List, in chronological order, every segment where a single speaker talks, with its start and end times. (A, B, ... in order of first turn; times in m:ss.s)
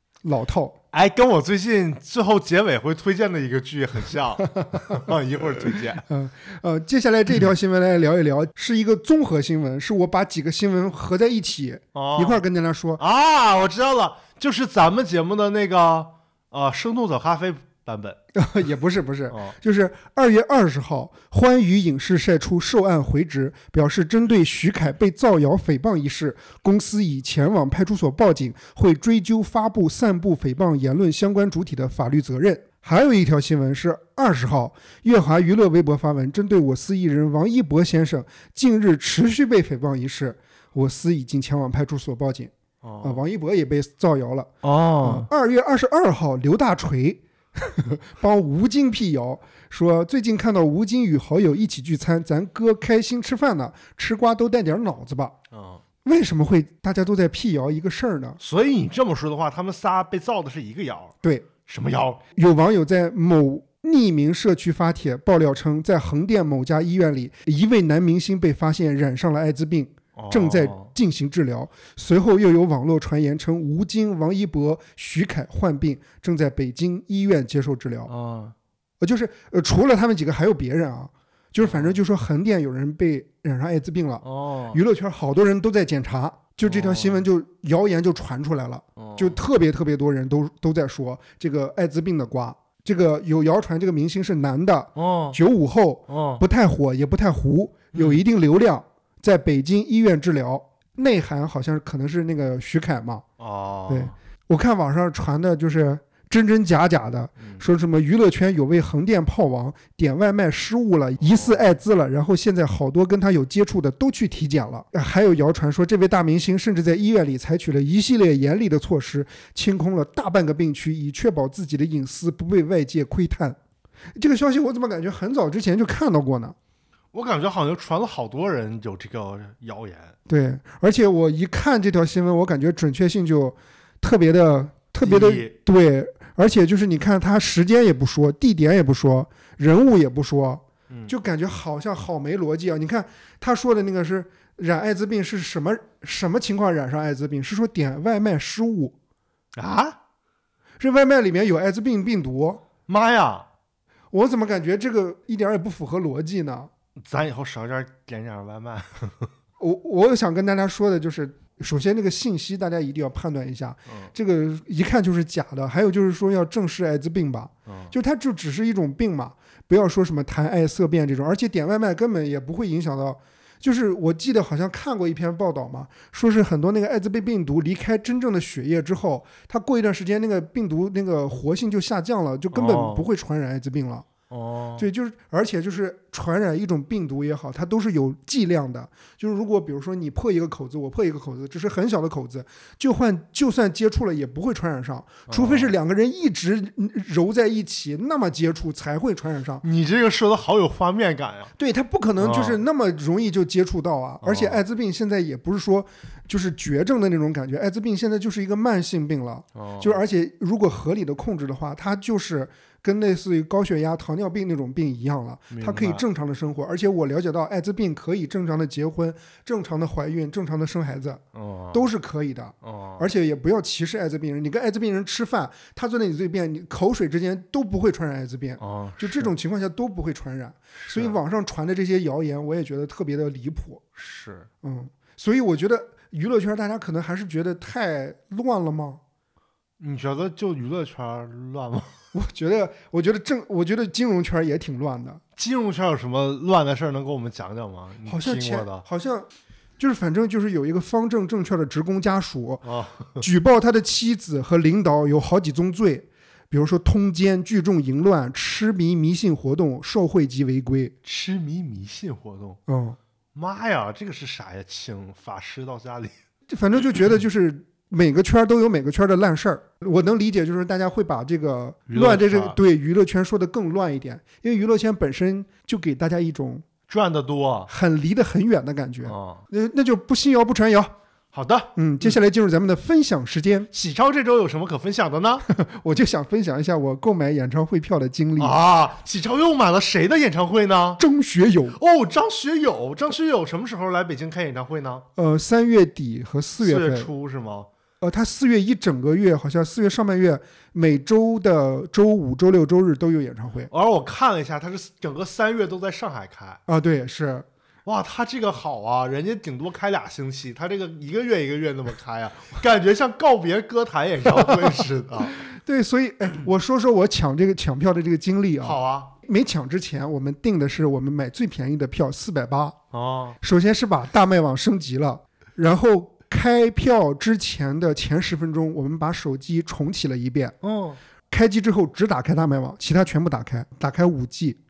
0:00.2-0:00.7 A
0:00.9-0:06.0 B
0:06.1-0:13.0 A
0:11.9-0:12.4 B
0:13.0-0:18.2 B
0:18.3-0:42.5 A
0:19.3-0:19.6 B
0:42.8-0:43.2 B
0:43.0-0:55.3 A
0:44.6-0:45.3 B
0:55.5-0:55.8 B
0:56.0-0:58.4 A
0:58.4-1:01.1 B
1:01.2-1:01.5 A
1:01.6-1:02.2 B
1:02.3-1:18.1 A
1:10.2-1:10.9 B
1:18.1-1:18.5 B
1:19.0-1:43.2 A
1:21.6-1:22.0 B
1:24.2-1:24.8 B
1:26.6-1:27.2 B
1:29.0-1:29.4 B
1:35.0-1:35.4 B
1:36.1-1:36.4 B
1:37.9-1:38.2 B
1:43.4-1:44.1 B
1:43.9-2:03.6 A
1:51.2-1:51.7 B
2:04.2-2:06.6 A
2:07.1-2:10.1 B
2:10.3-2:28.9 A
2:15.0-2:15.5 B
2:29.6-2:30.0 B
2:30.8-2:32.6 A
2:32.9-2:33.4 B
2:34.1-2:36.7 A
2:37.0-2:39.3 B
2:39.6-3:04.1 A
2:47.7-2:47.9 B
3:02.5-3:03.0 B
3:04.3-3:04.8 B
3:04.8-3:19.6 A
3:15.3-3:15.7 B
3:19.6-3:21.5 B
3:21.6-3:41.2 A
3:22.2-3:22.6 B
3:24.2-3:24.6 B
3:29.6-3:30.0 B
3:35.5-3:36.0 B
3:41.3-3:41.9 B
3:41.7-3:53.8 A
3:42.6-3:43.1 B
3:48.6-3:49.3 B
3:50.8-3:51.2 B
3:54.0-3:54.5 B
3:54.6-3:59.0 A
3:59.8-4:01.9 B
4:02.1-4:05.2 A
4:05.4-4:08.8 B
4:08.0-4:09.3 A
4:09.8-4:12.6 A
4:12.6-4:13.2 B
4:13.2-4:20.9 A
4:21.0-4:22.6 B
4:22.7-4:23.0 A
4:23.3-4:26.1 B
4:26.5-4:36.6 A
4:31.9-4:32.6 B
4:36.9-4:37.7 B
4:37.7-4:40.9 A
4:39.0-4:39.4 B
4:41.3-4:42.1 B
4:41.8-4:43.7 A
4:43.7-4:45.4 B
4:45.4-4:48.6 A
4:48.4-4:51.0 B
4:51.0-4:51.8 A
4:51.8-4:55.0 B
4:55.2-4:57.1 A
4:56.6-4:57.7 B
4:58.0-5:03.7 A
5:03.7-5:06.6 B
5:06.7-5:07.4 A
5:07.8-5:15.4 B
5:15.4-5:22.8 A
5:18.6-5:19.1 B
5:22.9-5:23.4 B
5:23.4-5:30.6 A
5:30.6-5:31.0 B
5:31.3-5:34.6 A